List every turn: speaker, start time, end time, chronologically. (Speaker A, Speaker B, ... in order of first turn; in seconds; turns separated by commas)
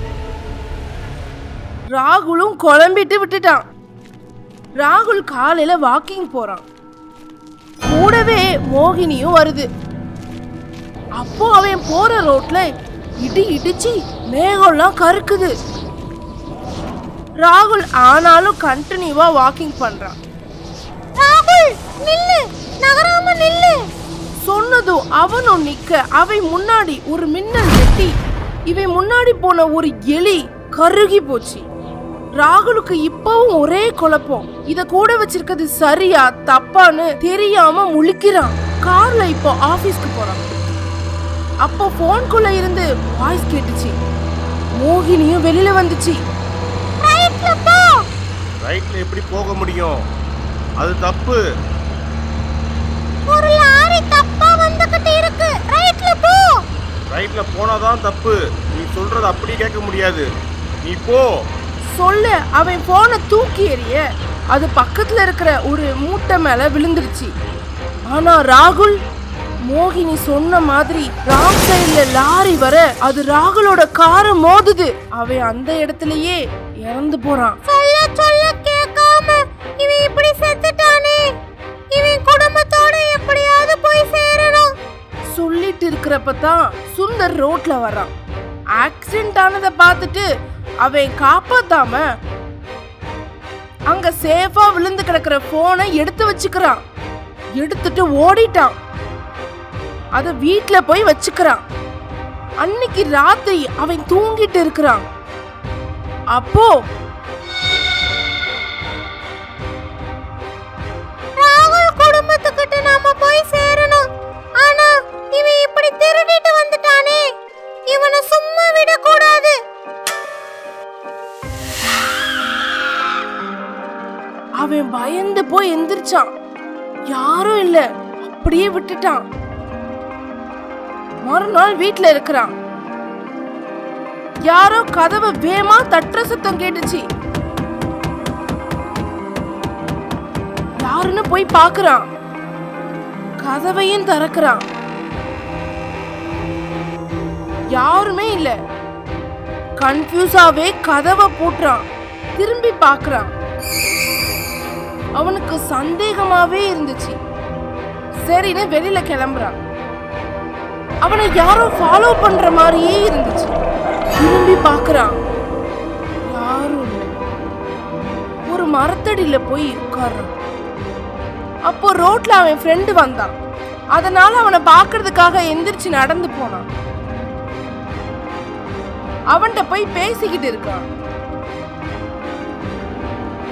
Speaker A: 1.9-3.6, Speaker A: 4.8-6.6, Speaker A: 7.9-9.7, Speaker A: 11.2-12.7, Speaker A: 13.2-15.6, Speaker A: 17.4-20.2, Speaker B: 21.2-23.7, Speaker A: 24.4-28.1, Speaker A: 28.7-31.6, Speaker A: 32.4-40.5, Speaker A: 41.6-43.9, Speaker A: 44.8-46.2, Speaker B: 47.0-47.9, Speaker C: 48.6-50.0, Speaker C: 50.8-51.4, Speaker B: 53.3-56.6, Speaker C: 57.1-60.3, Speaker C: 60.8-61.3, Speaker A: 62.0-64.0, Speaker A: 64.5-67.3, Speaker A: 68.1-69.0, Speaker A: 69.7-77.6, Speaker B: 77.7-81.2, Speaker B: 81.9-84.7, Speaker A: 85.3-88.1, Speaker A: 88.8-90.3, Speaker A: 90.8-92.0, Speaker A: 93.9-96.8, Speaker A: 97.6-98.8, Speaker A: 100.2-101.6, Speaker A: 102.6-105.0, Speaker A: 106.3-106.7, Speaker B: 111.4-114.1, Speaker B: 114.6-117.2, Speaker B: 117.9-119.5, Speaker A: 124.6-126.3, Speaker A: 127.1-129.3, Speaker A: 131.2-132.5, Speaker A: 134.5-137.1, Speaker A: 140.8-142.1, Speaker A: 143.4-144.6, Speaker A: 147.7-148.6, Speaker A: 149.8-151.8, Speaker A: 152.4-153.3, Speaker A: 155.2-157.2, Speaker A: 158.2-159.6, Speaker A: 161.0-163.5, Speaker A: 164.2-165.2, Speaker A: 166.3-167.1, Speaker A: 168.5-170.3, Speaker A: 171.7-173.3, Speaker A: 173.9-176.7, Speaker A: 179.3-180.8